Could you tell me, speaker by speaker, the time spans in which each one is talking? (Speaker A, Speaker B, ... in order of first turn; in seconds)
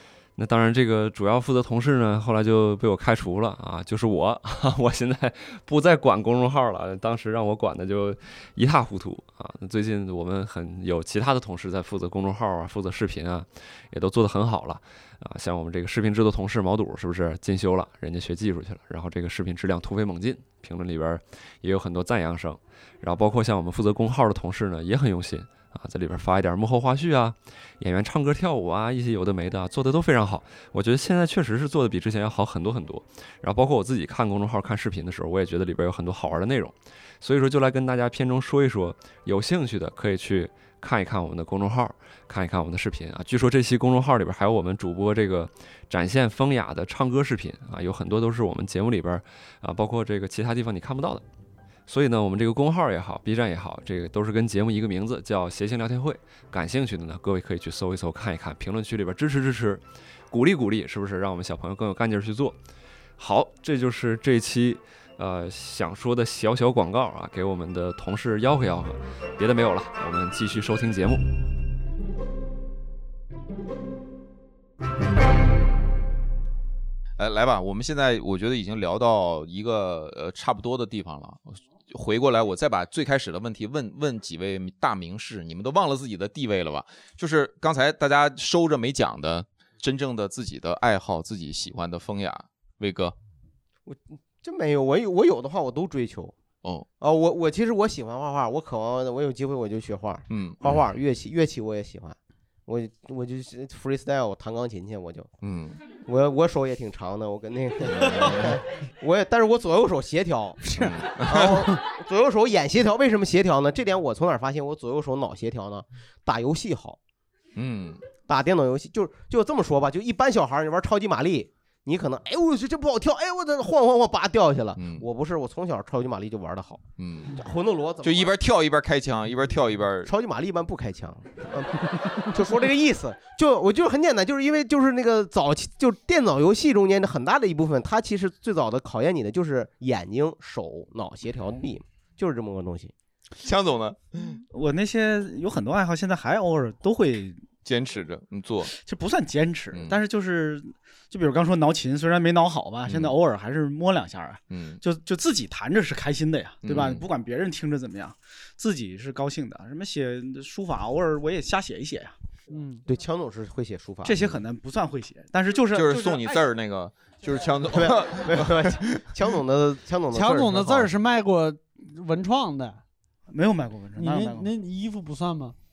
Speaker A: 0.4-51.2, 51.9-62.6, 63.2-71.2
Speaker B: 77.2-93.2, 100.3-100.8, 105.4-105.8, 107.9-108.6, 110.8-111.6, 117.6-118.0, 124.8-125.1, 127.0-127.4, 128.0-130.1, 143.4-144.4, 147.6-148.7, 152.9-153.1, 154.5-154.8, 156.6-157.1, 165.7-169.0
Speaker C: 93.9-96.4, 97.0-105.3, 106.0-110.6, 111.2-117.0, 118.3-126.8, 127.3-128.3, 130.1-131.8, 132.3-142.9, 162.9-164.4, 167.7-170.9
Speaker D: 110.6-111.8, 162.5-162.8, 170.1-172.8, 174.0-175.6
Speaker E: 144.5-147.5, 148.7-162.2, 164.0-166.4, 173.3-174.5